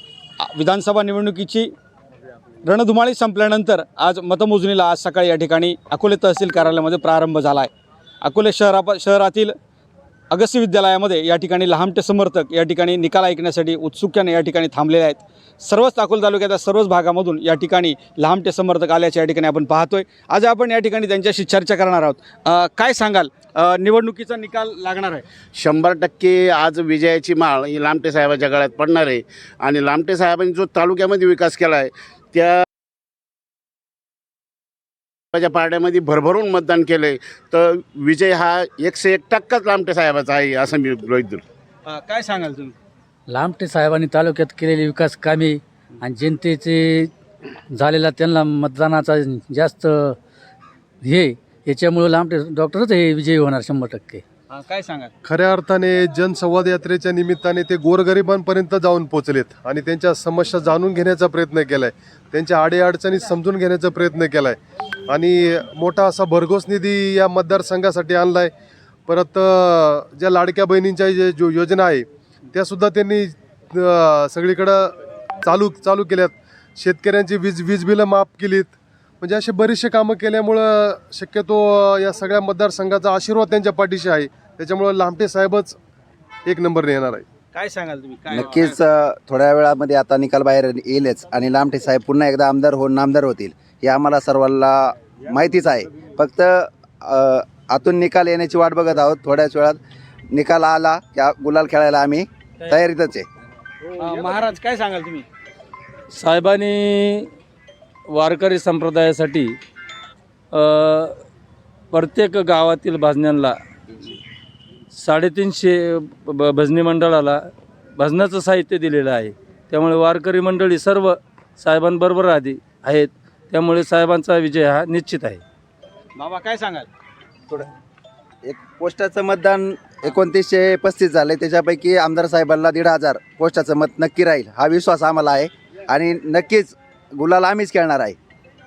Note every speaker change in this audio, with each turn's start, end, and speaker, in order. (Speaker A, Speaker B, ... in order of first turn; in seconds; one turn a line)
Speaker A: 0.4-1.7
Speaker A: 2.6-7.7
Speaker A: 8.2-9.5
Speaker A: 10.3-25.2
Speaker B: 25.6-32.6
Speaker B: 35.4-41.4
Speaker A: 41.9-42.8
Speaker C: 43.3-47.1
Speaker C: 47.7-50.2
Speaker C: 51.0-54.2
Speaker A: 54.5-55.1
Speaker D: 55.2-64.6
Speaker D: 65.1-68.5
Speaker D: 69.1-74.9
Speaker D: 75.4-85.8
Speaker D: 86.5-87.2
Speaker A: 87.5-88.8
Speaker E: 88.3-99.8
Speaker E: 100.3-103.3
Speaker A: 104.0-105.2
Speaker F: 106.1-107.3
Speaker F: 108.1-109.6
Speaker F: 110.5-111.2
Speaker F: 111.9-113.6
Speaker F: 114.9-125.4
Speaker A: 126.2-126.9
Speaker E: 128.4-138.2